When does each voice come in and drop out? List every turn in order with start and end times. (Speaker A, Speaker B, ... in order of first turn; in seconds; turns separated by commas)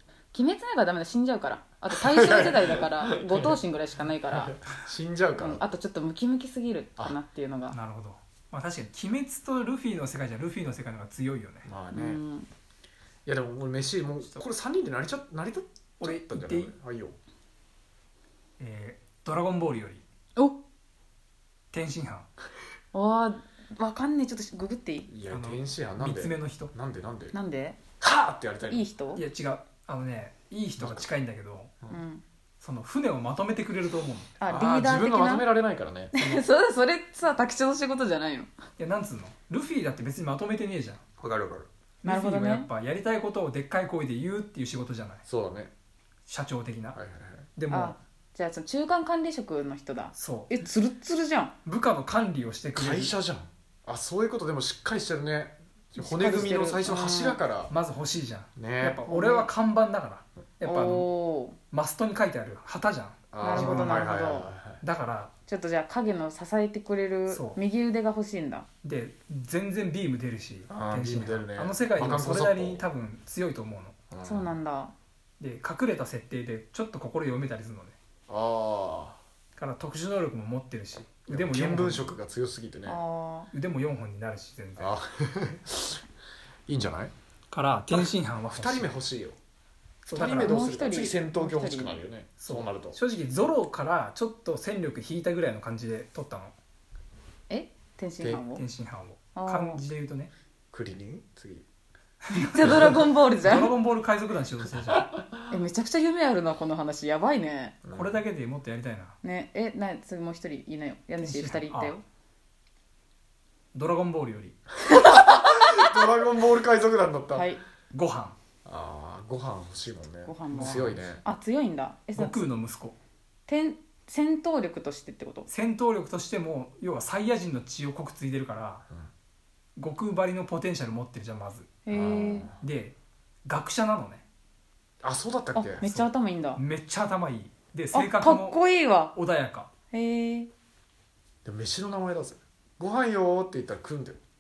Speaker A: 0.3-4.5, Speaker B: 1.9-3.6, Speaker B: 4.3-5.6, Speaker A: 5.4-7.8, Speaker C: 7.7-11.7, Speaker B: 11.6-12.2, Speaker A: 11.9-12.5, Speaker B: 13.2-17.2, Speaker C: 16.0-16.7, Speaker C: 18.6-20.0, Speaker C: 21.7-22.3, Speaker A: 22.9-25.1, Speaker B: 25.1-27.3, Speaker C: 25.3-26.7, Speaker A: 27.3-27.8, Speaker B: 28.0-28.9, Speaker A: 28.7-29.2, Speaker C: 29.1-31.7, Speaker B: 30.8-31.1, Speaker A: 31.9-32.2, Speaker C: 32.6-34.4, Speaker A: 34.4-35.5, Speaker B: 34.5-36.1, Speaker A: 36.1-38.5, Speaker C: 38.8-41.0, Speaker B: 41.2-41.7, Speaker C: 42.0-45.2, Speaker A: 42.0-42.7, Speaker B: 45.3-45.7, Speaker C: 46.3-47.0, Speaker B: 46.9-47.5, Speaker C: 47.6-48.0, Speaker A: 47.7-51.5, Speaker C: 50.1-50.5, Speaker C: 51.6-53.1, Speaker B: 52.7-57.7, Speaker A: 56.0-57.4, Speaker C: 57.7-61.1, Speaker B: 58.5-59.0, Speaker A: 59.1-59.5, Speaker A: 60.6-61.6, Speaker C: 61.7-64.1, Speaker B: 63.3-64.8, Speaker A: 63.4-64.5, Speaker C: 64.8-65.3, Speaker A: 65.5-68.7, Speaker C: 67.3-67.6, Speaker C: 68.8-73.9, Speaker B: 70.7-72.8, Speaker B: 74.1-74.5, Speaker A: 74.2-74.9, Speaker C: 75.4-78.0, Speaker B: 78.3-79.2, Speaker C: 79.5-82.2, Speaker B: 81.3-83.0, Speaker A: 82.8-83.5, Speaker C: 83.5-85.0, Speaker B: 84.8-86.0, Speaker B: 86.7-87.1, Speaker C: 87.5-88.9, Speaker B: 87.9-89.4, Speaker C: 90.0-90.6, Speaker B: 90.1-93.0, Speaker A: 90.2-92.0, Speaker C: 92.4-96.5, Speaker A: 97.5-98.6, Speaker C: 98.5-100.3, Speaker A: 99.3-99.8, Speaker B: 100.7-101.6, Speaker C: 102.3-105.2, Speaker A: 102.3-103.7, Speaker A: 105.5-107.8, Speaker B: 107.8-108.2, Speaker C: 107.9-109.2, Speaker A: 109.2-112.0, Speaker C: 111.2-111.9, Speaker C: 113.7-114.6, Speaker B: 114.9-117.5, Speaker A: 117.3-117.6, Speaker C: 117.9-118.3, Speaker B: 118.6-121.2, Speaker A: 120.2-122.4, Speaker C: 120.5-121.0, Speaker C: 122.2-123.0, Speaker A: 123.5-125.5, Speaker C: 125.5-128.8, Speaker C: 129.8-131.7, Speaker A: 131.8-132.5, Speaker B: 131.9-132.6, Speaker C: 132.6-134.2, Speaker B: 135.0-135.8, Speaker A: 135.6-136.6, Speaker C: 135.8-138.6, Speaker A: 137.9-139.1, Speaker C: 139.1-139.7, Speaker A: 139.9-140.5, Speaker B: 141.4-144.2